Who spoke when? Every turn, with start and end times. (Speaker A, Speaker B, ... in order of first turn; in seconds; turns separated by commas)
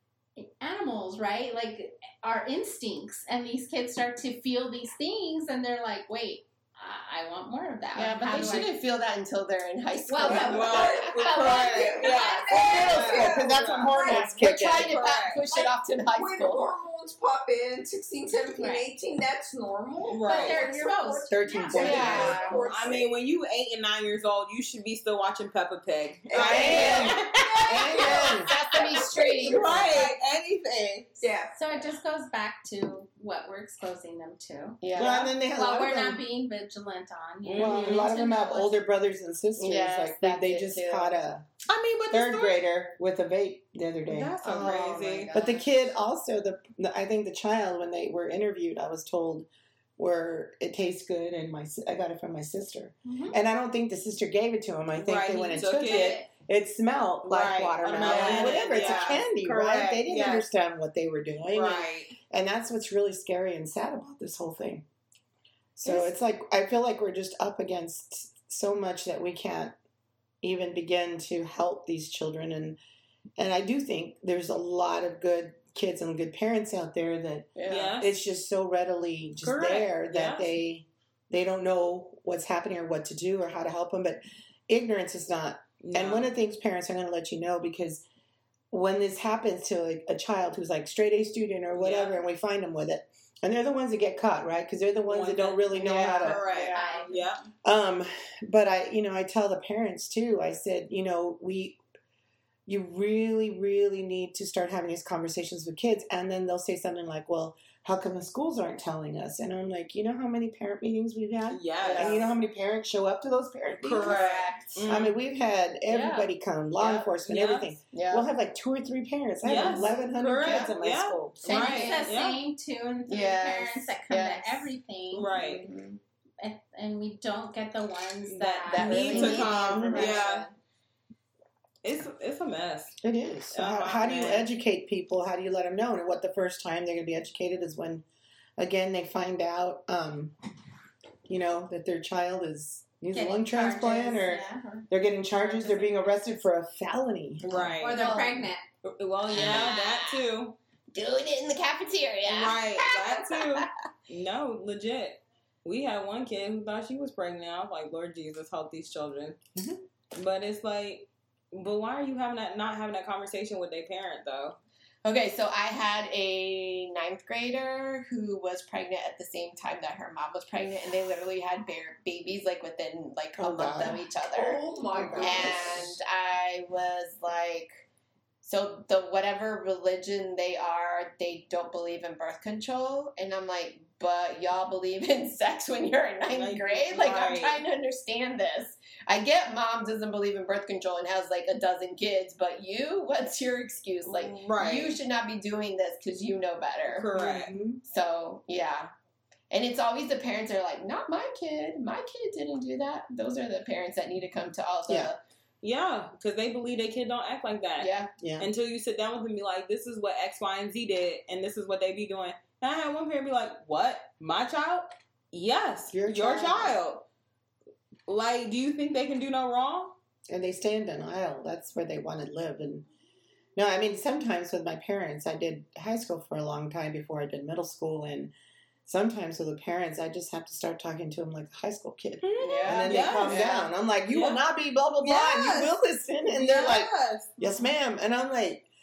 Speaker A: 0.4-8.8, Speaker B: 8.0-11.9, Speaker C: 10.1-23.2, Speaker D: 10.2-14.0, Speaker A: 11.4-12.3, Speaker E: 12.5-14.9, Speaker B: 14.0-16.7, Speaker D: 14.8-15.4, Speaker A: 18.5-18.9, Speaker D: 20.1-20.6, Speaker A: 20.2-22.7, Speaker E: 21.3-22.4, Speaker B: 21.7-22.7, Speaker D: 21.9-28.4, Speaker E: 26.3-28.5, Speaker B: 26.4-27.2, Speaker C: 26.4-30.1, Speaker B: 28.1-29.9, Speaker D: 29.4-31.1, Speaker C: 31.2-31.9, Speaker A: 31.5-38.8, Speaker B: 34.8-35.3, Speaker D: 35.0-35.3, Speaker E: 35.0-36.2, Speaker D: 37.5-38.1, Speaker E: 37.5-41.5, Speaker B: 39.6-41.2, Speaker D: 41.7-42.6, Speaker E: 42.1-44.5, Speaker D: 44.1-45.3, Speaker B: 44.4-45.7, Speaker E: 45.3-64.9, Speaker A: 53.0-53.4, Speaker D: 54.9-56.2, Speaker A: 55.8-56.3, Speaker D: 57.2-60.5, Speaker B: 57.9-59.1, Speaker D: 61.5-62.1, Speaker E: 65.8-69.8, Speaker E: 70.4-72.8, Speaker E: 73.4-88.1, Speaker B: 77.6-77.9, Speaker D: 77.7-78.2, Speaker D: 79.4-80.6, Speaker D: 85.8-86.3, Speaker E: 88.7-96.5, Speaker D: 91.8-92.2, Speaker D: 95.1-97.4, Speaker B: 95.9-97.2, Speaker A: 96.7-97.3, Speaker E: 97.6-101.8, Speaker E: 102.7-114.3, Speaker D: 111.5-112.3, Speaker B: 111.8-112.3, Speaker D: 113.8-115.2, Speaker B: 113.9-114.9, Speaker E: 114.9-121.4, Speaker B: 115.9-117.1, Speaker D: 117.3-117.7, Speaker B: 117.9-118.3, Speaker D: 119.4-122.4, Speaker B: 120.4-120.7, Speaker B: 121.4-122.2, Speaker A: 121.4-125.3, Speaker B: 123.1-124.7, Speaker D: 125.1-125.7, Speaker B: 125.3-126.0, Speaker A: 126.4-130.4, Speaker D: 128.3-130.4, Speaker B: 128.7-130.5, Speaker D: 131.8-133.0, Speaker E: 133.0-138.1, Speaker D: 133.5-134.5, Speaker E: 138.6-140.3, Speaker E: 141.3-147.5, Speaker A: 143.1-146.1, Speaker B: 147.4-148.4, Speaker D: 147.5-148.1, Speaker A: 147.8-148.6, Speaker D: 148.8-150.6, Speaker B: 149.3-150.2, Speaker E: 149.3-149.8, Speaker B: 150.9-153.7, Speaker D: 152.2-159.4, Speaker E: 159.6-159.8, Speaker D: 160.1-164.6, Speaker B: 165.0-174.6, Speaker E: 173.4-174.0, Speaker C: 174.3-175.9, Speaker E: 174.9-176.0, Speaker B: 175.2-177.8, Speaker B: 178.4-197.1, Speaker D: 186.3-187.6, Speaker D: 194.1-195.0, Speaker D: 196.9-197.6, Speaker E: 197.1-197.8, Speaker B: 197.8-198.9, Speaker B: 199.5-205.2, Speaker D: 205.6-217.0, Speaker B: 207.8-208.1, Speaker E: 208.2-208.5, Speaker E: 215.9-216.8, Speaker D: 218.1-219.9, Speaker E: 220.3-222.9, Speaker E: 223.6-228.3, Speaker E: 228.9-238.7, Speaker D: 232.2-234.4, Speaker B: 232.4-233.7, Speaker D: 235.0-237.3